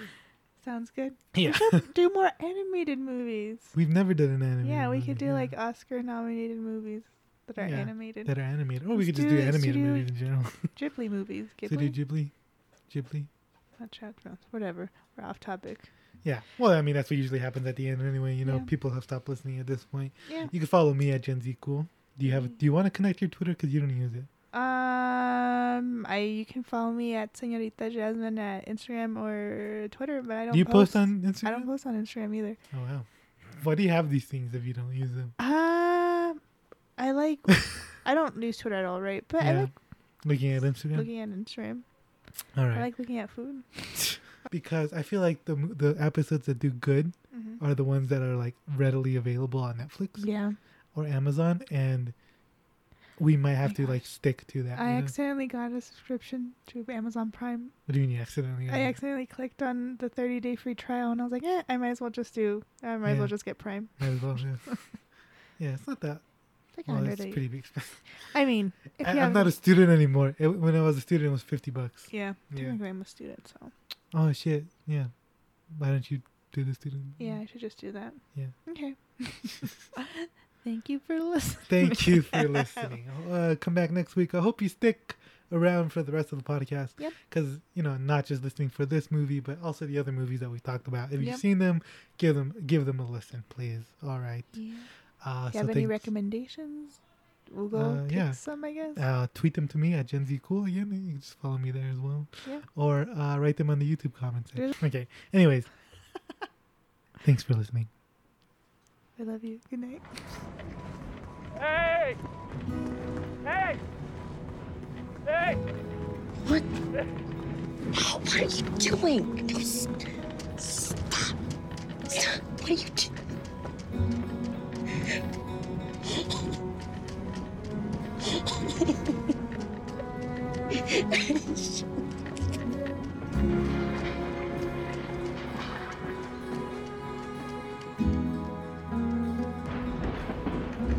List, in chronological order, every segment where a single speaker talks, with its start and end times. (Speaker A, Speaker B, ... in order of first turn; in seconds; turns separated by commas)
Speaker A: 0.6-3.7, Speaker B: 1.3-1.8, Speaker B: 3.7-5.5, Speaker A: 4.6-8.3, Speaker B: 7.6-10.7, Speaker A: 8.9-10.1, Speaker A: 10.7-11.9, Speaker B: 11.6-12.3, Speaker B: 12.9-13.3, Speaker A: 13.8-15.9, Speaker B: 16.2-24.3, Speaker A: 18.4-18.7, Speaker A: 20.2-20.5, Speaker A: 24.5-32.6, Speaker B: 30.5-31.7, Speaker B: 32.7-35.3, Speaker A: 35.4-36.4, Speaker A: 37.0-39.7, Speaker B: 39.4-39.7, Speaker B: 40.2-41.1, Speaker A: 40.9-41.8, Speaker B: 42.5-42.9, Speaker A: 42.7-44.1, Speaker B: 44.5-50.3, Speaker A: 47.3-47.6, Speaker A: 50.2-50.5, Speaker B: 50.9-52.1, Speaker B: 53.2-55.1, Speaker A: 53.6-54.0, Speaker A: 54.7-57.7, Speaker B: 57.9-59.0, Speaker A: 58.7-64.1, Speaker B: 63.0-63.3, Speaker B: 64.0-64.7, Speaker B: 65.6-66.2, Speaker A: 66.7-67.4, Speaker B: 66.8-68.0, Speaker A: 68.2-69.5, Speaker B: 69.0-72.8, Speaker A: 72.1-73.7, Speaker B: 74.1-75.1, Speaker B: 75.7-77.4, Speaker A: 77.2-82.9, Speaker B: 81.7-94.5, Speaker A: 94.5-94.9, Speaker B: 95.2-96.0, Speaker A: 95.5-99.0, Speaker B: 97.7-98.4, Speaker B: 98.9-105.7, Speaker B: 107.2-107.9, Speaker A: 109.2-110.2, Speaker C: 118.0-119.9, Speaker C: 120.7-120.9, Speaker C: 122.6-123.0